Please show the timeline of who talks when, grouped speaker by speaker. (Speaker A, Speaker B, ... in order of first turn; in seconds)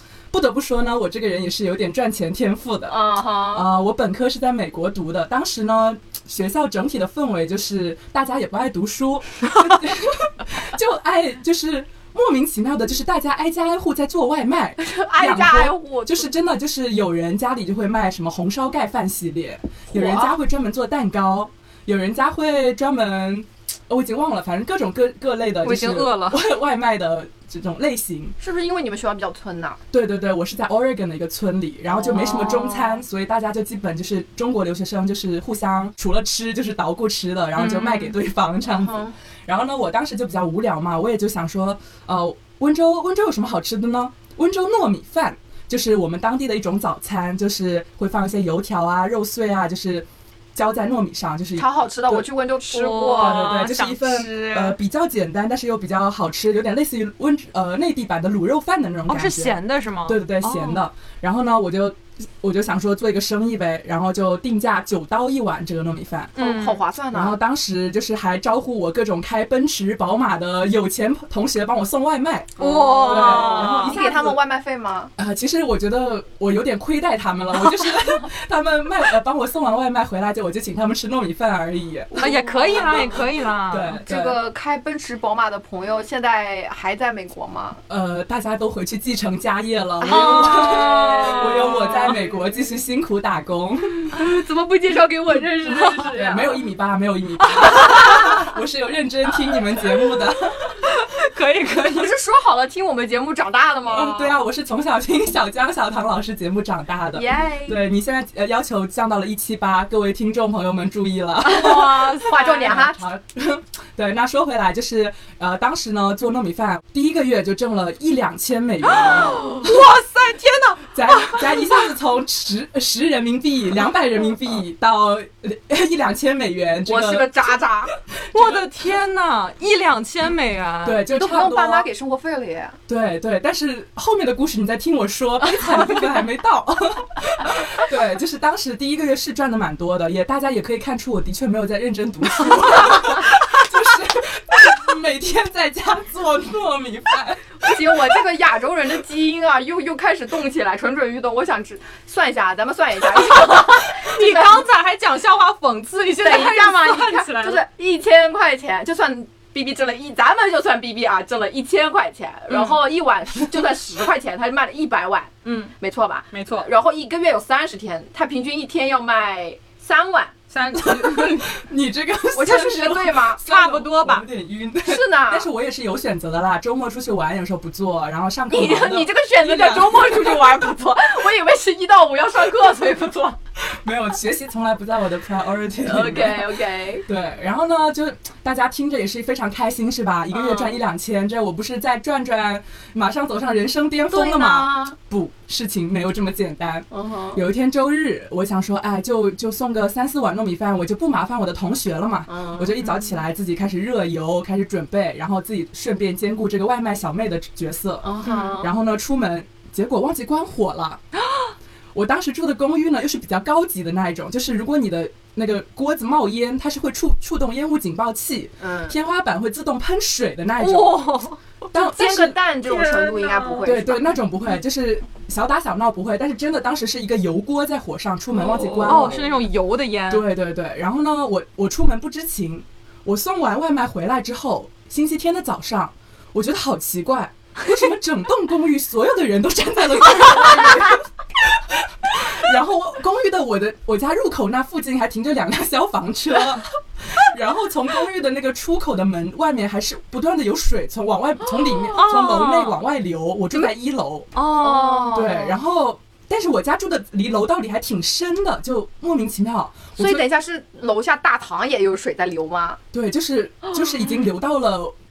Speaker A: 0.3-3.0, 3.5-28.3, 29.9-52.3, 53.1-66.3, 67.1-74.4, 75.2-82.2, 83.7-84.4, 87.9-94.2, 95.8-100.6, 103.9-119.8, 120.9-127.5, 128.3-128.7, 130.8-131.9, 132.9-148.0, 170.7-180.7, 183.6-211.0, 211.9-221.1, 221.7-222.4, 223.6-229.2, 230.1-254.3, 255.1-260.2, 262.9-264.9
Speaker B: 2.9-3.7, 14.8-16.3, 19.9-20.4, 28.4-29.8, 31.9-33.0, 38.6-39.1, 51.6-53.6, 66.4-67.4, 72.6-75.1, 82.1-83.2, 84.0-87.8, 90.0-92.3, 94.1-96.6, 98.0-98.3, 101.9-104.4, 107.1-107.8, 111.5-113.0, 126.8-127.9, 131.1-132.8, 147.6-154.6, 156.2-170.3, 172.3-173.4, 174.8-175.5, 178.5-183.4, 185.8-187.1, 190.4-190.7, 194.1-194.9, 196.9-197.4, 202.3-203.0, 208.0-208.7, 218.6-218.9, 221.7-224.2, 228.6-229.2, 254.6-255.6, 260.0-262.8
Speaker C: 25.6-26.4, 37.5-38.1, 52.7-54.8, 59.1-60.8, 66.4-66.8, 72.6-74.0, 82.2-84.0, 90.0-92.2, 97.5-98.2, 100.8-102.1, 111.4-112.8, 118.9-121.8, 128.3-131.0, 153.4-157.6, 162.5-162.8, 165.4-165.7, 166.3-166.7, 170.5-171.5, 173.4-174.2, 220.6-221.4, 222.6-223.7, 228.4-230.3, 251.9-252.8, 254.3-255.5